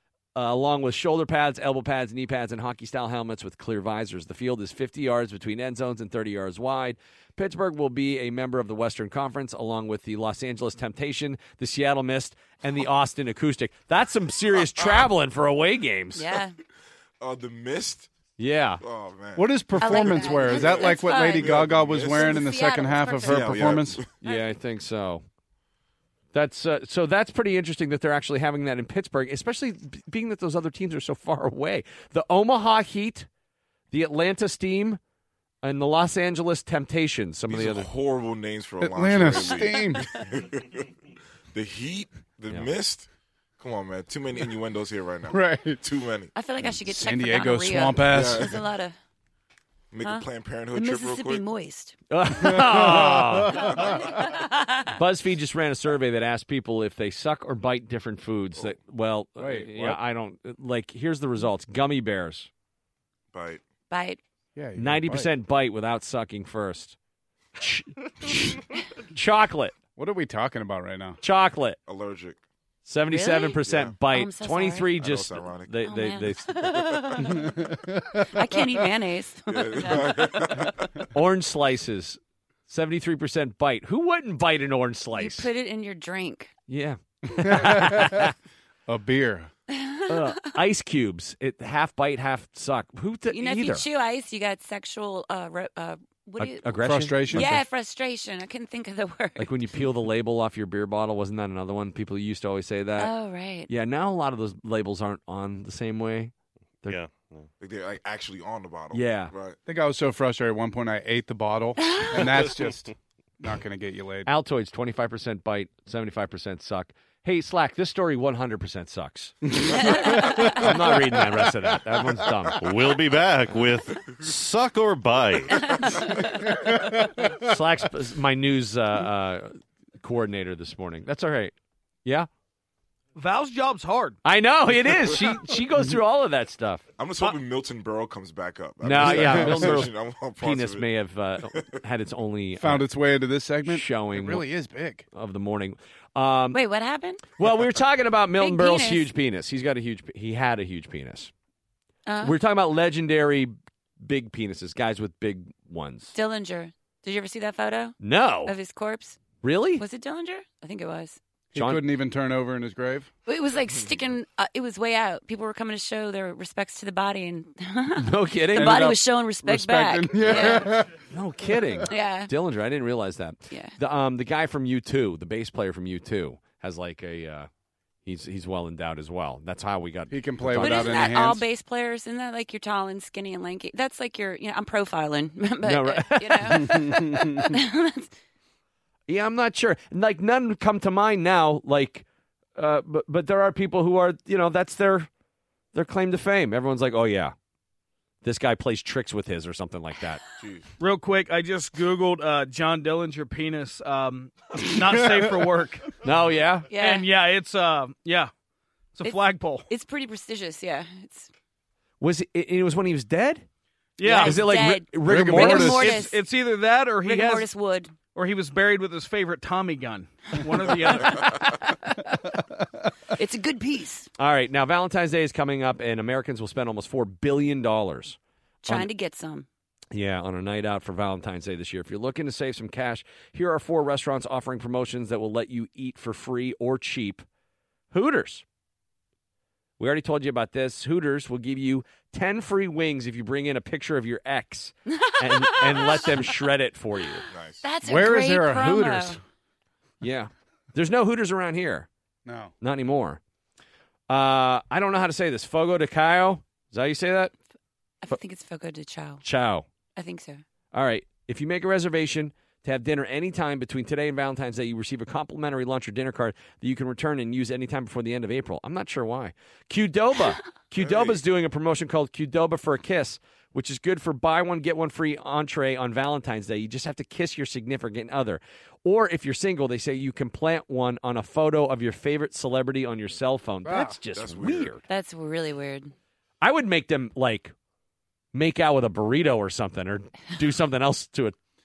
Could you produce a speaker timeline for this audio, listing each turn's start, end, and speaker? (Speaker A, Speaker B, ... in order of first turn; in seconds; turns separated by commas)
Speaker A: 0.3-16.2, Speaker B: 14.8-15.1, Speaker C: 16.1-16.6, Speaker B: 17.2-18.1, Speaker A: 18.4-18.8, Speaker B: 18.8-22.6, Speaker D: 19.4-24.0, Speaker C: 19.8-23.6, Speaker B: 23.2-24.1, Speaker A: 24.2-25.2, Speaker A: 26.3-33.3, Speaker A: 33.9-35.0, Speaker A: 35.6-37.9, Speaker B: 37.5-40.9, Speaker D: 38.8-40.1, Speaker B: 41.5-43.1, Speaker B: 43.6-46.3, Speaker D: 45.3-45.8, Speaker C: 46.3-48.9, Speaker D: 46.9-48.6, Speaker B: 48.1-48.6, Speaker B: 49.9-51.4, Speaker C: 50.0-52.0, Speaker A: 52.1-53.8, Speaker D: 52.4-54.2, Speaker C: 53.7-54.9, Speaker A: 54.9-62.5, Speaker D: 59.4-60.0, Speaker B: 63.3-63.6, Speaker C: 63.9-64.2, Speaker D: 64.5-65.3, Speaker A: 64.8-67.0, Speaker A: 67.6-69.7, Speaker D: 70.0-71.2, Speaker A: 71.2-71.8, Speaker B: 71.9-72.4, Speaker A: 72.8-76.8, Speaker C: 73.1-74.9, Speaker B: 73.7-73.9, Speaker B: 75.0-75.7, Speaker C: 75.8-77.6, Speaker D: 77.2-78.7, Speaker C: 78.2-80.6, Speaker B: 79.5-80.9, Speaker A: 81.1-85.5, Speaker C: 85.2-86.5, Speaker A: 86.7-88.3, Speaker D: 87.3-88.3, Speaker D: 88.9-89.5, Speaker C: 89.7-90.2, Speaker A: 90.1-93.8, Speaker C: 93.3-96.8, Speaker A: 96.4-97.6, Speaker D: 96.8-97.5, Speaker C: 97.3-99.5, Speaker A: 99.4-103.1, Speaker C: 103.0-103.7, Speaker A: 103.7-106.3, Speaker E: 106.8-107.5, Speaker B: 107.6-109.6, Speaker A: 108.9-109.3, Speaker D: 109.7-114.3, Speaker C: 111.8-112.2, Speaker A: 114.2-122.6, Speaker D: 119.5-121.5, Speaker C: 119.7-120.5, Speaker E: 122.5-126.1, Speaker C: 125.8-126.2, Speaker D: 126.7-127.0, Speaker A: 127.2-132.3, Speaker F: 133.1-134.2, Speaker A: 134.2-136.8, Speaker B: 137.0-140.8, Speaker A: 138.8-142.9, Speaker D: 139.0-139.8, Speaker D: 142.6-145.0, Speaker A: 143.7-144.5, Speaker A: 145.1-146.6, Speaker C: 146.5-147.2, Speaker A: 147.4-151.3, Speaker C: 148.4-149.1, Speaker C: 152.1-152.3, Speaker A: 152.2-156.1, Speaker C: 156.1-159.2, Speaker A: 158.0-158.5, Speaker A: 159.4-159.8, Speaker C: 159.8-161.2, Speaker D: 161.5-163.1, Speaker A: 161.5-161.9, Speaker C: 163.2-170.8, Speaker A: 167.9-168.9, Speaker D: 168.6-170.9, Speaker A: 171.1-177.5, Speaker C: 171.9-172.3, Speaker A: 178.0-181.2, Speaker D: 180.1-181.4, Speaker C: 180.6-188.1, Speaker A: 185.6-187.0, Speaker D: 186.6-187.5, Speaker A: 189.1-192.0, Speaker A: 192.6-195.1, Speaker A: 195.7-197.3, Speaker A: 198.2-200.2, Speaker B: 200.4-200.7, Speaker F: 200.8-205.9, Speaker A: 206.0-206.7, Speaker C: 206.7-207.1, Speaker F: 206.8-208.3, Speaker F: 208.9-209.7, Speaker C: 209.0-211.3, Speaker A: 212.0-213.4, Speaker F: 214.0-214.4, Speaker C: 214.0-216.2, Speaker A: 214.0-216.0, Speaker D: 215.0-216.0, Speaker F: 215.4-217.5, Speaker C: 217.0-217.9, Speaker F: 218.1-221.6, Speaker C: 223.1-224.1, Speaker A: 224.2-228.9, Speaker C: 228.6-229.5, Speaker A: 229.9-237.2, Speaker A: 237.9-238.4, Speaker A: 239.8-247.2, Speaker C: 244.9-246.3, Speaker C: 247.2-249.2, Speaker B: 247.3-247.6, Speaker D: 247.8-249.2, Speaker A: 250.0-251.9, Speaker D: 252.2-252.5, Speaker A: 252.6-253.2, Speaker A: 254.1-257.3, Speaker C: 258.0-259.2, Speaker A: 259.2-259.6, Speaker C: 259.9-260.4, Speaker A: 260.7-284.8, Speaker B: 270.8-271.2, Speaker D: 283.6-283.9, Speaker B: 284.1-284.7, Speaker C: 284.9-285.9, Speaker A: 286.4-287.5, Speaker A: 288.3-291.4